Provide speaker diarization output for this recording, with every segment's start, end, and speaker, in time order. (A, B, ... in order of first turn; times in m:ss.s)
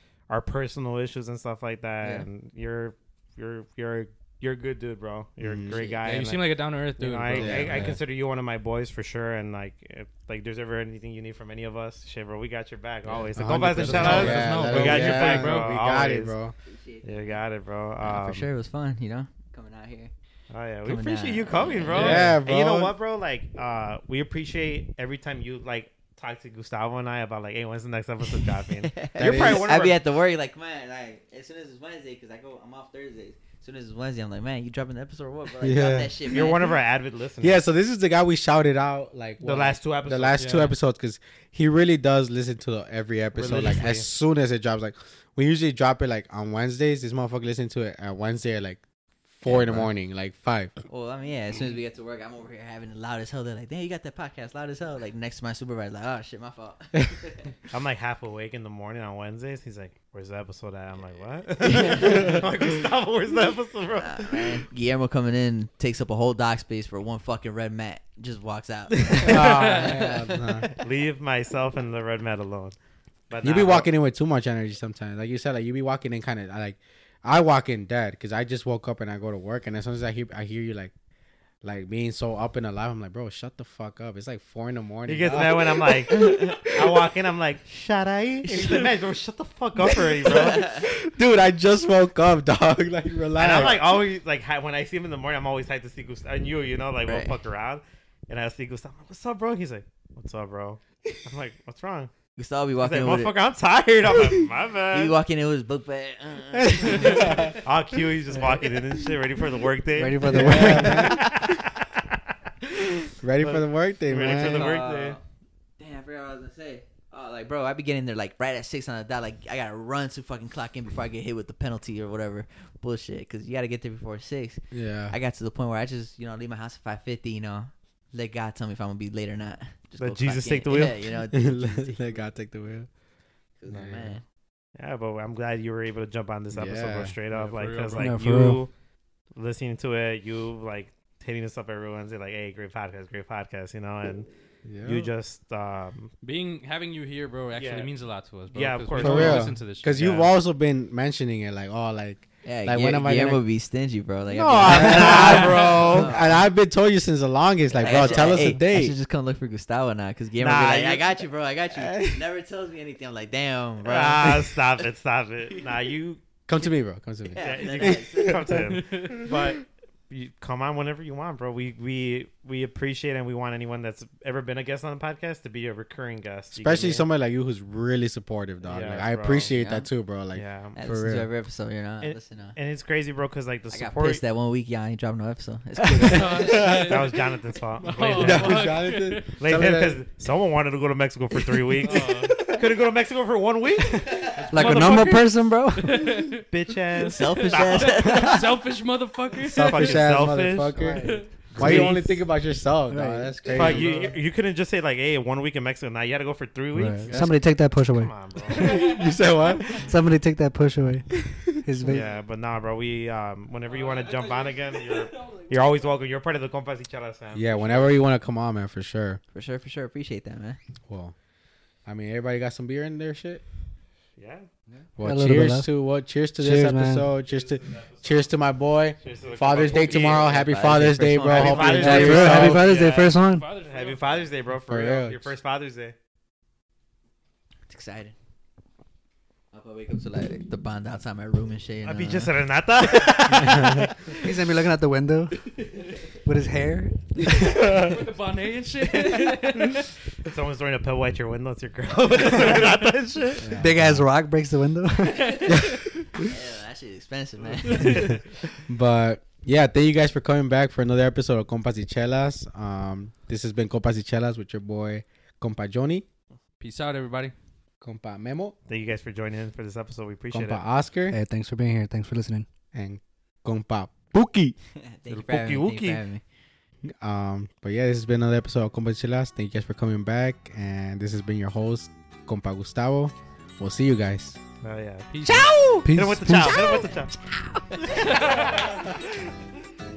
0:00.3-0:16.3 A
0:05.4-0:05.8 B
0:05.7-0:06.3 C
0:06.0-0:08.0 D
0:07.3-0:08.0 B
0:13.0-0:15.7 D
0:13.3-0:16.5 B
0:14.0-0:14.4 C
0:16.6-0:17.4 C
0:17.0-0:18.5 A
0:18.0-0:20.1 C
0:20.5-0:30.0 A
0:20.8-0:22.3 C
0:21.9-0:22.3 D
0:21.9-0:22.9 B
0:28.3-0:36.7 C
0:29.2-0:29.7 B
0:35.6-0:36.5 B
0:36.3-0:37.6 A
0:37.4-0:50.7 B
0:39.4-0:40.5 A
0:40.4-0:40.7 D
0:43.3-0:44.1 A
0:49.5-0:49.8 C
0:50.9-0:57.5 C
0:57.7-1:04.6 A
1:01.6-1:02.4 C
1:02.0-1:02.4 B
1:04.0-1:10.7 C
1:09.0-1:09.5 A
1:09.2-1:10.7 B
1:10.7-1:12.8 A
1:13.3-1:13.9 A
1:13.4-1:20.9 B
1:21.6-1:26.4 B
1:25.0-1:30.7 A
1:26.1-1:26.8 C
1:28.5-1:28.9 C
1:29.8-1:34.0 B
1:30.5-1:30.8 C
1:33.3-1:42.1 A
1:37.0-1:37.4 C
1:42.4-1:43.4 C
1:42.8-1:45.2 A
1:44.9-1:47.6 C
1:46.5-1:47.5 B
1:47.1-1:55.2 A
1:49.9-1:51.2 E
1:50.3-1:51.3 B
1:50.8-1:51.1 C
1:53.2-1:54.8 B
1:54.2-1:55.2 C
1:55.8-2:12.2 C
2:04.7-2:05.1 B
2:10.0-2:11.0 A
2:11.3-2:12.9 B
2:13.6-2:14.2 C
2:13.7-2:14.1 B
2:14.8-2:18.7 A
2:16.5-2:17.2 B
2:17.3-2:18.1 D
2:17.9-2:18.6 E
2:19.3-2:24.3 A
2:24.6-2:25.1 B
2:24.8-2:26.1 A
2:26.2-2:30.0 D
2:27.5-2:27.9 A
2:28.5-2:30.3 A
2:29.0-2:33.4 B
2:32.4-2:36.4 C
2:34.3-2:36.1 A
2:34.5-2:39.0 B
2:37.7-2:44.8 C
2:37.8-2:38.5 A
2:40.4-2:41.1 A
2:41.7-2:42.2 B
2:43.8-2:46.2 A
2:46.5-2:48.8 B
2:47.3-2:48.6 C
2:47.4-2:57.1 A
2:48.8-2:49.2 D
2:56.5-3:01.3 B
2:58.6-2:59.5 A
2:59.5-2:59.9 C
3:00.3-3:00.8 A
3:00.7-3:02.6 C
3:02.0-3:04.2 A
3:03.7-3:06.5 C
3:06.0-3:07.2 D
3:06.1-3:07.2 B
3:06.5-3:08.7 A
3:07.8-3:09.4 D
3:08.1-3:10.0 B
3:09.4-3:15.2 A
3:11.8-3:12.5 D
3:12.2-3:12.6 B
3:14.4-3:20.4 D
3:14.5-3:16.2 E
3:16.4-3:18.3 A
3:17.0-3:18.5 C
3:19.4-3:24.1 B
3:19.5-3:20.8 A
3:20.7-3:22.2 E
3:20.9-3:22.0 D
3:21.5-3:21.9 A
3:22.9-3:23.9 E
3:23.5-3:29.0 A
3:23.6-3:23.9 D
3:26.7-3:29.0 E
3:27.1-3:27.4 D
3:28.6-3:29.8 B
3:28.6-3:29.1 D
3:29.7-3:32.1 E
3:31.2-3:32.0 B
3:31.8-3:38.0 A
3:33.7-3:36.0 D
3:37.3-3:39.2 B
3:39.3-3:40.6 C
3:40.9-3:41.1 B
3:41.8-3:43.4 B
3:44.2-3:44.5 A
3:45.0-3:52.6 B
3:45.0-3:45.7 E
3:46.4-3:47.1 E
3:47.4-3:48.2 A
3:49.0-3:50.3 A
3:49.7-3:52.5 C
3:51.2-3:56.0 A
3:51.7-3:53.5 E
3:53.1-3:54.4 D
3:54.6-3:55.3 B
3:57.7-3:58.1 C
3:59.5-4:02.4 C
4:01.8-4:04.0 A
4:03.3-4:03.8 B
4:04.2-4:05.5 E
4:06.2-4:07.9 E
4:07.4-4:09.9 D
4:07.6-4:08.0 B
4:10.2-4:13.5 A
4:12.3-4:12.7 D
4:13.4-4:14.0 B
4:13.5-4:15.8 E
4:15.2-4:15.6 D
4:16.2-4:18.2 C
4:17.6-4:18.2 D
4:18.7-4:26.0 B
4:26.6-4:27.3 D
4:27.8-4:28.5 B
4:28.7-4:30.6 A
4:30.3-4:31.2 B
4:31.1-4:32.4 E
4:32.7-4:34.6 B
4:34.7-4:36.2 C
4:35.1-4:36.0 A
4:36.8-4:44.4 B
4:44.6-4:45.1 A
4:45.1-4:45.7 D
4:45.2-4:45.9 C
4:45.8-4:46.8 E
4:45.9-4:47.1 A
4:46.4-4:46.9 C
4:47.7-4:48.4 C
4:47.8-4:48.7 A
4:48.0-4:48.6 D